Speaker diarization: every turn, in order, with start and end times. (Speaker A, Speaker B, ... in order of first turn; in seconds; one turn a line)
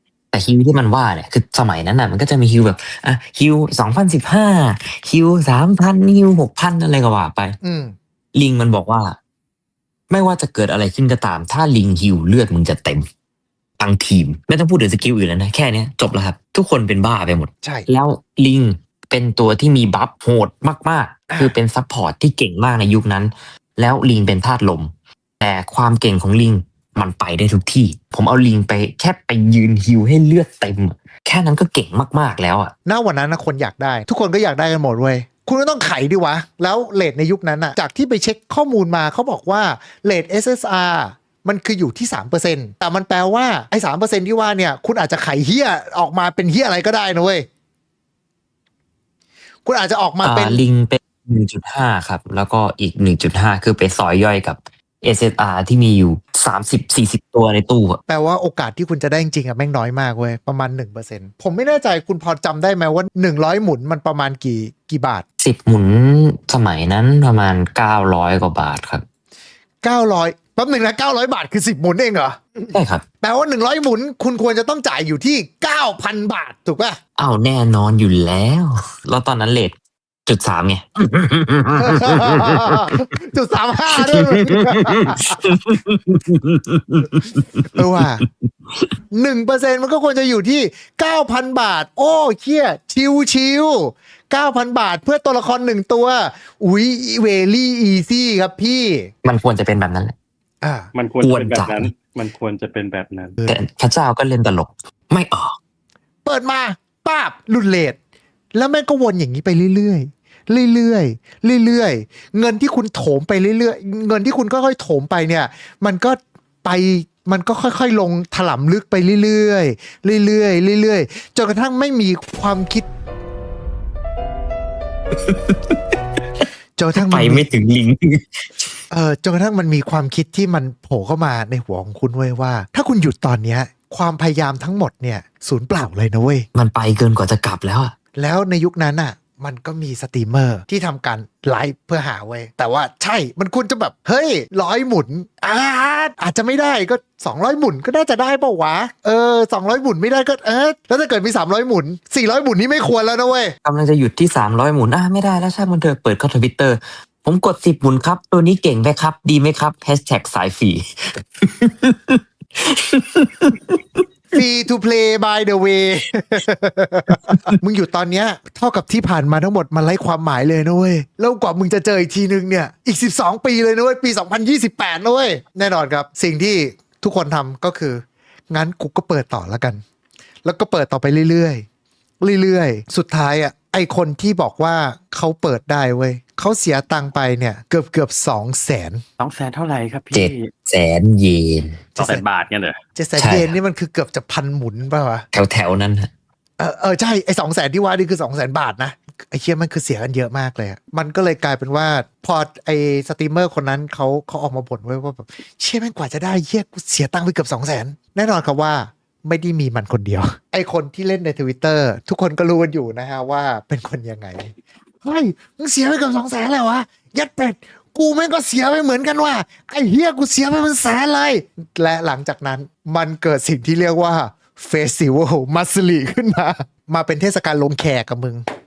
Speaker A: 0.3-7.6
Speaker B: 7.6-8.0
Speaker A: 8.3-9.2
Speaker A: 10.1-13.1
Speaker A: 13.8-24.9
Speaker B: 21.3-21.6
Speaker A: 25.4-32.7
Speaker B: 32.9-47.5
Speaker B: 49.6-50.6
Speaker A: 50.2-58.0
Speaker B: 58.1-65.2
Speaker A: 65.4-69.0
Speaker B: 69.8-77.0
Speaker A: 72.7-73.0
Speaker A: 77.2-82.9
Speaker B: 81.7-85.5
Speaker A: 84.0-88.2
Speaker B: 87.8-88.2
Speaker B: 89.1-99.1
Speaker A: 99.2-100.2
Speaker B: 100.6-100.9
Speaker C: 101.0-103.4
Speaker A: 101.2-101.9
Speaker A: 103.5-105.5
Speaker B: 106.2-108.0
Speaker B: 108.5-122.9
Speaker A: 125.3-125.7
Speaker B: 126.8-127.5
Speaker A: 126.9-128.7
Speaker B: 128.9-136.5
Speaker A: 136.5-137.9
Speaker B: 138.2-153.6
Speaker A: 153.6-164.0
Speaker B: 164.3-179.8
Speaker A: 167.3-167.6
Speaker B: 180.4-181.7
Speaker B: 182.2-189.0
Speaker C: 189.2-190.5
Speaker A: 190.1-191.8
Speaker C: 192.0-192.8
Speaker B: 192.0-192.2
Speaker B: 193.0-195.2
Speaker A: 193.2-193.6
Speaker A: 195.3-196.1
Speaker B: 196.6-228.4